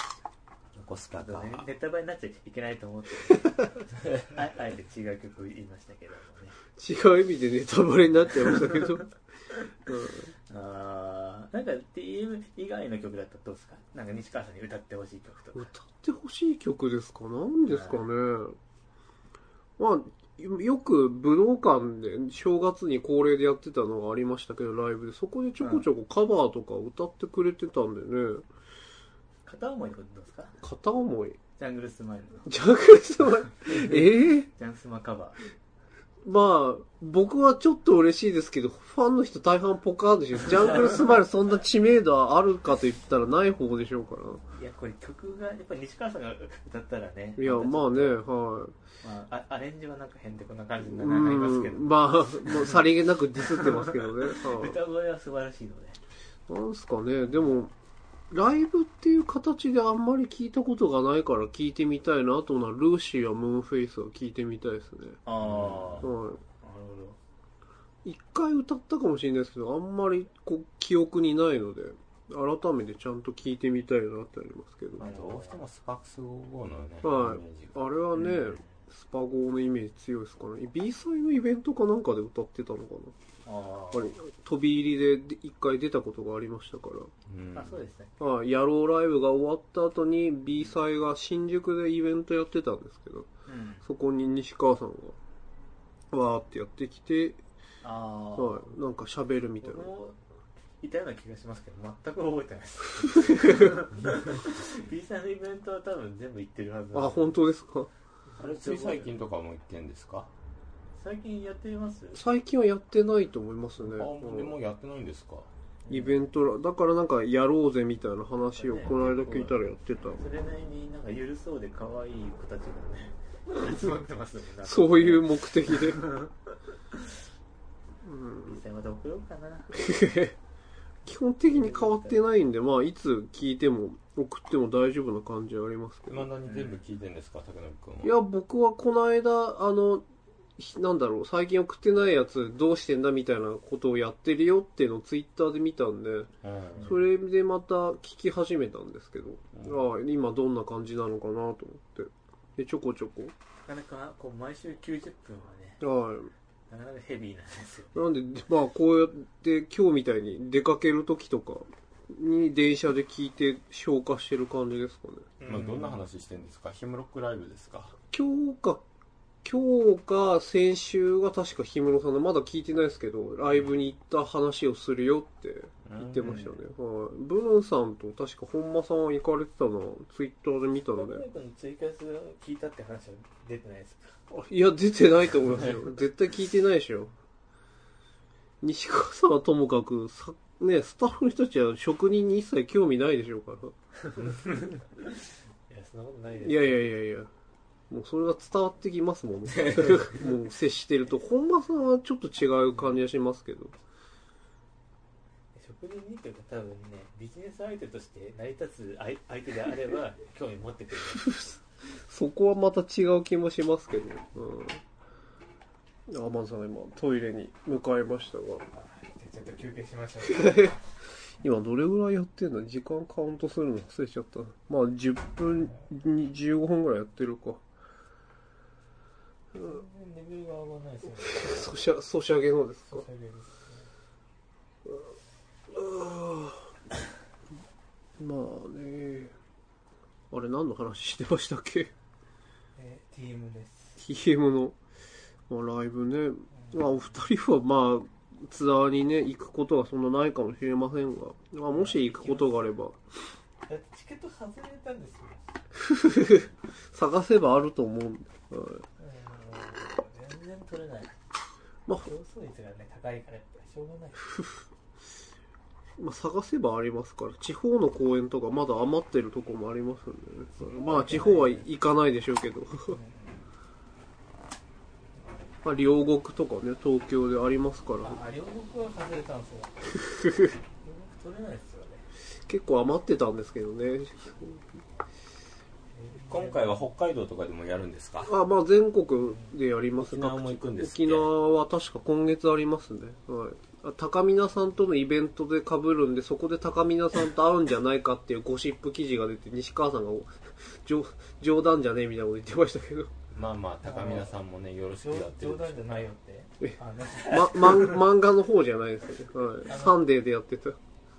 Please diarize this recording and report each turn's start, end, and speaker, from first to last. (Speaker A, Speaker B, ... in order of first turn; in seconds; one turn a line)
Speaker A: 0.8-1.7
Speaker B: 1.2-6.6
Speaker C: 6.8-9.1
Speaker B: 8.4-8.9
Speaker C: 9.9-10.3
Speaker B: 10.5-15.7
Speaker C: 15.6-18.6
Speaker B: 17.7-18.1
Speaker C: 19.8-28.4
Speaker B: 25.6-25.9
Speaker B: 29.5-30.6
Speaker C: 30.6-31.4
Speaker B: 31.6-32.5
Speaker C: 32.5-34.5
Speaker B: 33.7-35.4
Speaker C: 36.2-44.4
Speaker B: 44.5-48.2
Speaker C: 47.4-48.8
Speaker B: 49.0-52.8
Speaker C: 50.8-54.8
Speaker B: 53.4-56.0
Speaker C: 56.5-57.7
Speaker C: 58.3-65.2
Speaker B: 65.3-67.2
Speaker A: 65.4-66.1
Speaker C: 66.0-66.4
Speaker C: 68.0-75.1
Speaker B: 75.0-75.7
Speaker A: 75.0-77.8
Speaker C: 77.0-83.2
Speaker B: 78.1-78.8
Speaker B: 83.5-84.2
Speaker C: 83.9-87.1
Speaker A: 87.3-87.8
Speaker B: 87.5-88.2
Speaker C: 88.2-93.3
Speaker B: 93.5-93.8
Speaker C: 93.8-95.2
Speaker C: 96.1-97.4
Speaker B: 97.8-98.7
Speaker C: 98.3-99.9
Speaker B: 99.6-100.2
Speaker B: 100.8-107.4
Speaker C: 103.3-103.7
Speaker C: 106.9-107.9
Speaker B: 108.3-109.1
Speaker A: 108.4-110.3
Speaker B: 111.0-112.2
Speaker C: 112.1-114.5
Speaker A: 113.8-115.5
Speaker B: 115.9-116.2
Speaker C: 115.9-120.2
Speaker B: 118.6-119.5
Speaker A: 118.8-119.5
Speaker B: 120.1-126.3
Speaker C: 124.6-126.1
Speaker C: 128.1-128.6
Speaker B: 128.4-129.9
Speaker C: 129.7-130.3
Speaker C: 131.1-136.3
Speaker B: 131.5-132.2
Speaker A: 136.1-138.2
Speaker B: 136.5-136.8
Speaker C: 138.0-140.1
Speaker C: 140.6-146.3
Speaker A: 146.4-147.0
Speaker B: 146.8-147.0
Speaker C: 146.8-153.3
Speaker A: 149.5-149.8
Speaker B: 153.7-155.8
Speaker C: 155.8-156.3
Speaker B: 156.7-158.1
Speaker C: 157.9-165.3
Speaker B: 165.4-166.0
Speaker A: 165.4-167.9
Speaker C: 168.1-168.8
Speaker C: 169.4-181.2
Speaker A: 175.8-176.4
Speaker B: 176.2-176.6
Speaker B: 180.9-184.2
Speaker C: 184.3-187.1
Speaker C: 188.6-193.7
Speaker B: 194.1-195.2
Speaker B: 195.7-196.9
Speaker C: 196.4-197.3
Speaker C: 197.9-203.8
Speaker A: 199.6-200.1
Speaker B: 205.6-211.4
Speaker C: 211.1-214.8
Speaker C: 216.1-218.7
Speaker B: 218.7-220.8
Speaker C: 220.4-220.7
Speaker C: 221.4-227.6
Speaker B: 229.6-231.8
Speaker C: 231.2-233.1
Speaker B: 232.9-233.9
Speaker C: 235.7-236.7
Speaker C: 238.2-239.3
Speaker C: 240.3-241.9
Speaker B: 242.8-244.0
Speaker C: 244.0-244.8
Speaker C: 245.5-253.0
Speaker B: 246.6-246.9
Speaker B: 251.7-252.6
Speaker B: 253.7-255.6
Speaker C: 255.8-258.8
Speaker B: 259.0-261.1
Speaker B: 262.0-264.3
Speaker C: 266.0-273.0
Speaker B: 270.7-271.7
Speaker B: 272.9-273.5
Speaker B: 275.2-275.5
Speaker C: 275.6-278.2
Speaker B: 278.0-279.9
Speaker C: 280.1-280.5
Speaker B: 280.8-282.1
Speaker C: 282.5-284.6
Speaker B: 285.9-286.8
Speaker A: 286.2-288.3
Speaker C: 288.3-303.1
Speaker A: 290.0-291.3
Speaker A: 303.3-306.1
Speaker B: 303.8-304.4
Speaker B: 305.0-308.1
Speaker C: 306.6-310.8
Speaker B: 309.7-310.0